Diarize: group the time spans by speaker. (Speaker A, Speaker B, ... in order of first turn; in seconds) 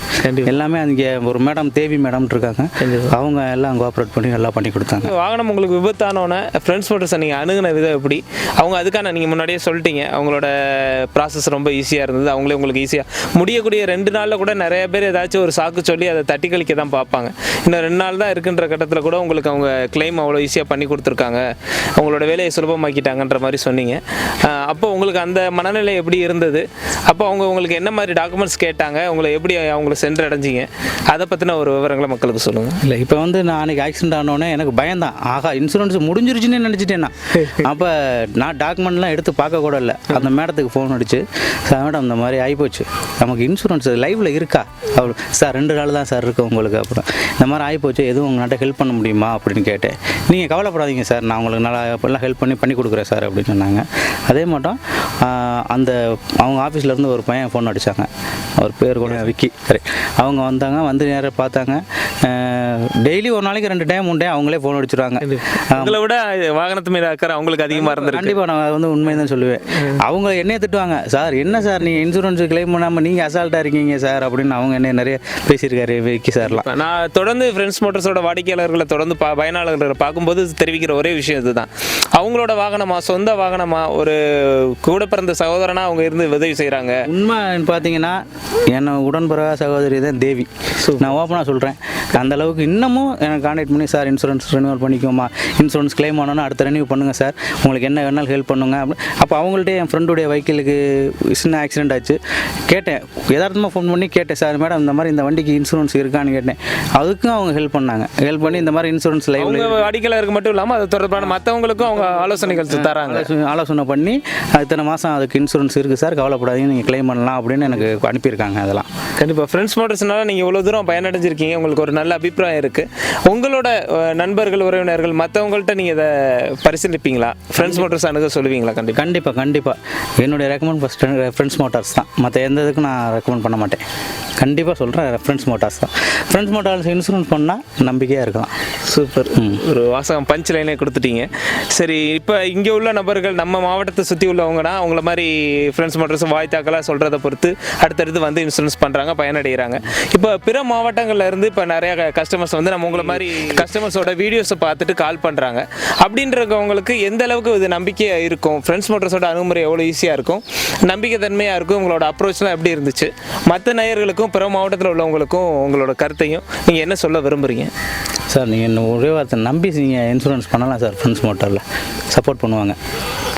Speaker A: 0.2-0.6, 2.8-3.1, 5.0-32.8, 65.2-68.4, 76.4-87.0, 90.8-91.2, 109.4-113.3, 119.2-129.0, 138.8-167.7
Speaker B: 0.4-5.1, 32.8-66.0, 67.7-76.7, 87.0-109.8, 111.9-118.9, 127.6-127.9, 128.9-133.8, 134.4-138.5, 139.3-139.6, 168.3-172.8